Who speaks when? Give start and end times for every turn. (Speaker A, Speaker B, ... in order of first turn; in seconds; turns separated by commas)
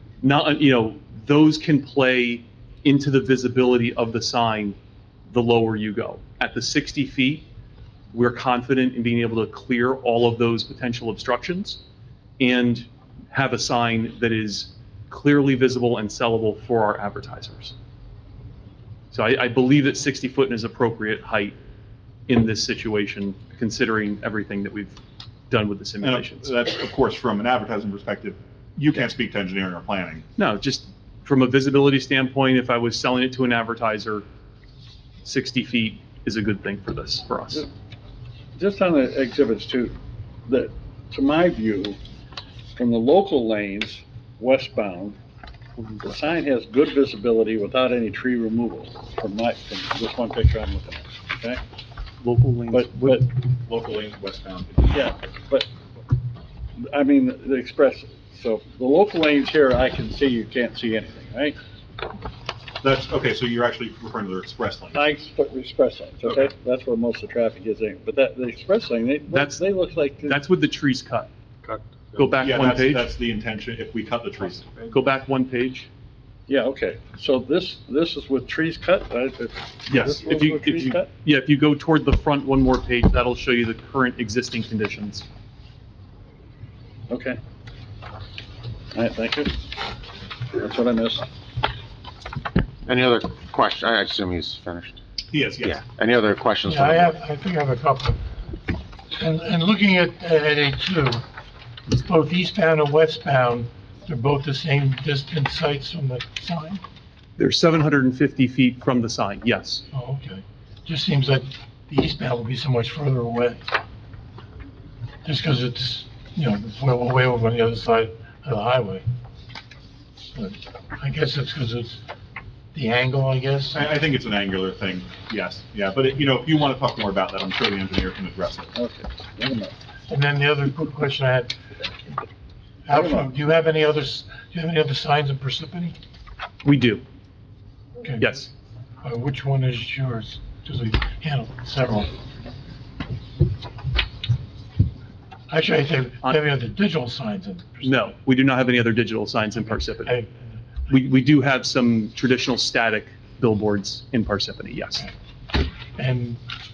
Speaker A: 0.2-4.8, Speaker A: 5.3-7.4, Speaker A: 8.1-11.8, Speaker A: 12.4-17.7, Speaker A: 19.1-21.6, Speaker A: 22.3-25.0, Speaker A: 25.5-26.5, Speaker B: 26.0-30.2, Speaker A: 30.4-34.2, Speaker A: 35.2-37.6, Speaker C: 38.6-42.0, Speaker C: 42.8-45.2, Speaker A: 45.8-46.1, Speaker C: 46.0-51.6, Speaker A: 52.2-53.2, Speaker C: 52.7-53.3, Speaker B: 53.5-55.0, Speaker C: 54.9-55.7, Speaker C: 56.8-61.6, Speaker B: 62.8-65.0, Speaker C: 64.9-70.4, Speaker A: 69.3-69.7, Speaker A: 70.2-71.3, Speaker A: 72.2-73.0, Speaker B: 72.4-74.7, Speaker A: 74.9-75.9, Speaker C: 76.5-81.1, Speaker A: 79.9-85.2, Speaker C: 87.1-87.4, Speaker C: 88.9-89.6, Speaker C: 90.5-91.2, Speaker D: 92.8-95.0, Speaker B: 95.3-95.8, Speaker D: 95.6-97.2, Speaker E: 96.7-98.2, Speaker E: 99.1-101.2, Speaker E: 101.9-106.8, Speaker A: 107.4-109.8, Speaker E: 109.9-113.6, Speaker E: 115.2-119.0, Speaker E: 120.3-122.0, Speaker E: 122.7-123.9, Speaker B: 123.7-128.7, Speaker C: 128.7-129.7, Speaker E: 130.1-131.5, Speaker E: 132.9-135.9, Speaker C: 132.9-133.3, Speaker A: 136.6-137.0, Speaker E: 138.0-138.5, Speaker A: 138.2-138.5, Speaker E: 139.0-142.1, Speaker E: 145.5-148.1, Speaker A: 147.8-150.2, Speaker E: 149.6-150.6, Speaker A: 150.9-155.1, Speaker E: 155.9-156.4